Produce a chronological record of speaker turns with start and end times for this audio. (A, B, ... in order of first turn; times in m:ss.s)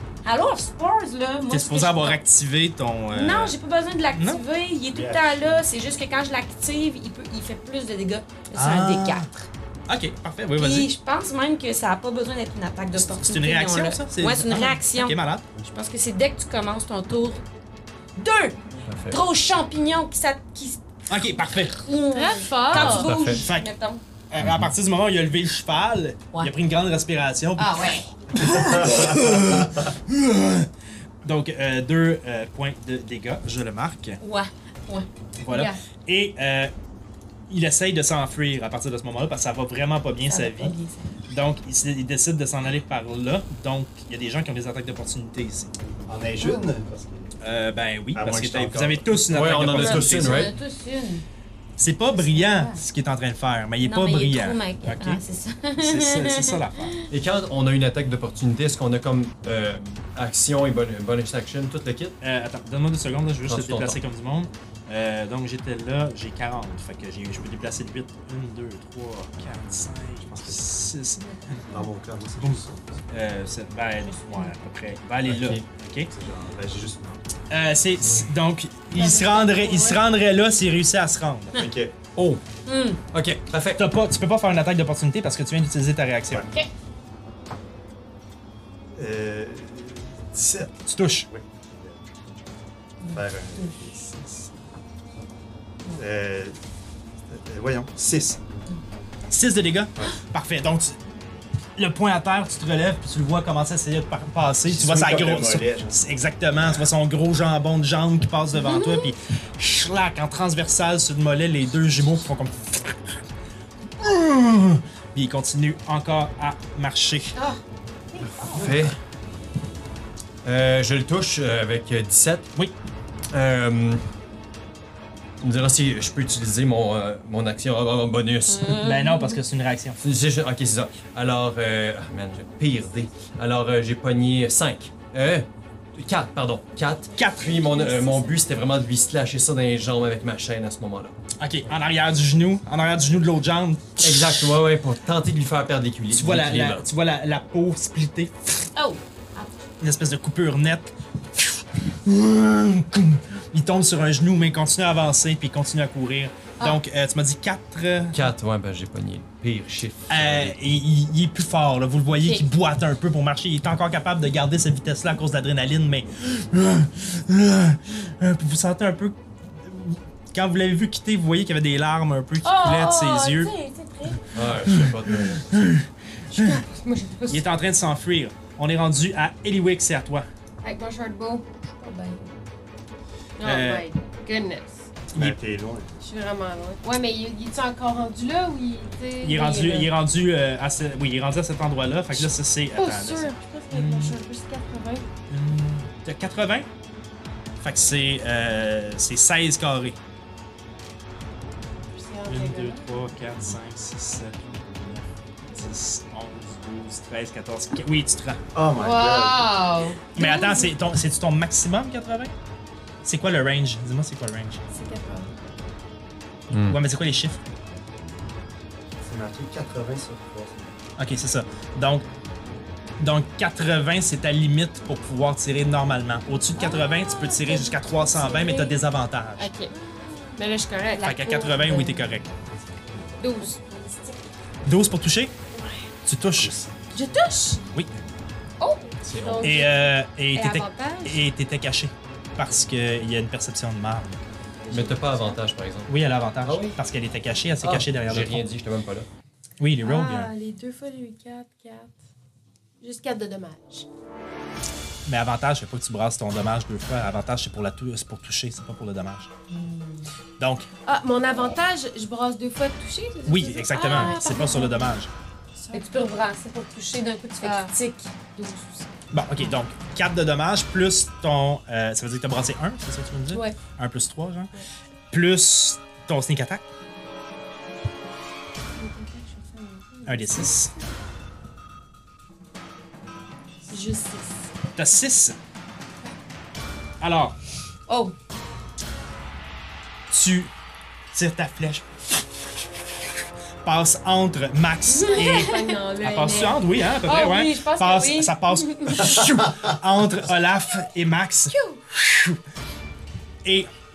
0:00.2-0:02.2 A
0:01.5-0:03.6 B
0:03.1-0:09.5 A
0:04.1-0:04.4 B
0:04.9-0:05.6 C
0:08.6-0:09.3 B
0:09.9-0:10.9 B
0:10.6-0:17.4 A
0:13.0-0:15.4 B
0:18.2-0:18.6 A
0:18.9-0:19.2 D
0:19.1-0:24.0 A
0:21.1-0:21.9 B
0:22.1-0:23.1 E
0:22.7-0:23.4 D
0:23.1-0:23.7 B
0:24.3-0:30.7 B
0:24.4-0:24.7 D
0:27.6-0:28.0 A
0:28.6-0:29.7 C
0:31.2-0:34.2 B
0:34.2-0:35.1 A
0:35.4-0:36.7 B
0:35.5-0:35.8 E
0:37.5-0:40.8 B
0:40.3-0:41.2 A
0:41.3-0:45.7 B
0:46.1-0:47.3 C
0:47.4-0:50.5 B
0:48.1-0:49.1 C
0:49.3-0:50.5 D
0:49.7-0:51.2 A
0:51.8-0:55.2 B
0:52.2-0:52.8 A
0:53.8-0:56.9 A
0:55.8-0:57.0 B
0:57.1-1:02.2 D
1:02.2-1:11.6 B
1:03.5-1:04.0 D
1:11.7-1:12.9 C
1:12.4-1:16.1 B
1:15.3-1:15.6 D
1:16.1-1:17.2 C
1:17.5-1:21.6 B
1:18.9-1:20.0 E
1:21.5-1:21.9 C
1:22.2-1:22.4 D
1:22.7-1:23.0 A
1:23.1-1:23.9 D
1:23.8-1:26.5 B
1:29.0-1:32.2 C
1:30.9-1:31.3 B
1:33.0-1:33.8 A
1:33.1-1:34.6 C
1:35.9-1:36.6 C
1:37.3-1:38.6 C
1:39.3-1:41.0 B
1:41.8-1:53.2 B
1:44.7-1:46.0 C
1:48.6-1:49.1 A
1:54.0-1:57.4 B
1:57.4-1:57.6 A
1:58.1-1:58.7 A
1:58.2-1:59.0 D
2:00.4-2:02.5 D
2:03.3-2:04.0 D
2:05.4-2:08.8 D
2:08.5-2:09.4 A
2:08.8-2:10.0 B
2:10.0-2:21.2 D
2:17.2-2:18.2 B
2:21.4-2:24.6 B
2:24.0-2:26.9 D
2:26.1-2:28.6 B
2:28.8-2:29.6 A
2:29.8-2:38.3 B
2:38.1-2:40.6 D
2:40.1-2:53.5 B
2:52.4-2:54.2 A
2:54.3-2:55.5 D
2:54.6-2:56.6 B
2:56.3-2:57.5 E
2:57.3-3:00.3 B
3:00.6-3:01.4 E
3:01.8-3:02.2 A
3:03.4-3:04.9 E
3:03.4-3:03.9 B
3:05.1-3:06.0 C
3:06.0-3:09.9 E
3:09.2-3:14.2 B
3:12.8-3:15.1 E
3:15.3-3:16.7 B
3:17.6-3:20.0 B
3:21.9-3:23.0 E
3:22.3-3:28.4 B
3:28.5-3:29.5 C
3:28.8-3:30.7 A
3:29.5-3:30.6 E
3:30.2-3:32.3 B
3:33.0-3:34.6 B
3:34.7-3:35.4 E
3:36.5-3:36.8 D
3:36.7-3:37.4 B
3:39.0-3:40.8 C
3:41.0-3:42.1 B
3:43.0-3:49.5 B
3:46.6-3:48.8 E
3:49.4-3:49.7 E
3:49.8-3:50.4 A
3:50.4-3:51.1 E
3:51.0-3:52.1 A
3:51.0-3:52.3 B
3:53.2-3:54.2 E
3:54.6-3:55.3 B
3:56.0-3:56.6 B
3:56.4-3:56.7 C
3:56.9-3:57.6 E
3:58.6-4:00.0 E
3:59.0-3:59.6 D
3:59.4-4:04.2 B
4:00.4-4:01.2 A
4:04.7-4:05.4 E
4:04.7-4:06.8 D
4:05.9-4:08.5 B
4:07.6-4:09.1 D
4:09.6-4:10.3 B
4:09.8-4:11.9 E
4:12.8-4:13.9 E
4:15.1-4:19.3 B
4:19.5-4:20.0 A
4:20.4-4:20.7 B
4:20.9-4:25.0 E
4:23.3-4:25.1 B
4:23.7-4:24.4 A
4:25.6-4:26.0 E
4:25.7-4:27.8 A
4:27.4-4:28.9 E
4:29.1-4:34.5 B
4:33.3-4:33.6 E
4:35.1-4:36.6 B
4:38.8-4:40.8 E
4:40.1-4:40.7 B
4:43.7-4:44.5 E
4:44.8-4:45.4 B
4:47.0-4:47.4 B
4:47.9-4:48.2 A
4:50.1-4:50.5 B
4:51.1-4:53.1 B
4:53.6-5:02.4 B
4:54.9-4:55.8 A
4:55.1-4:58.2 E
4:57.0-4:59.2 A
4:59.2-4:59.7 C
5:01.5-5:01.8 A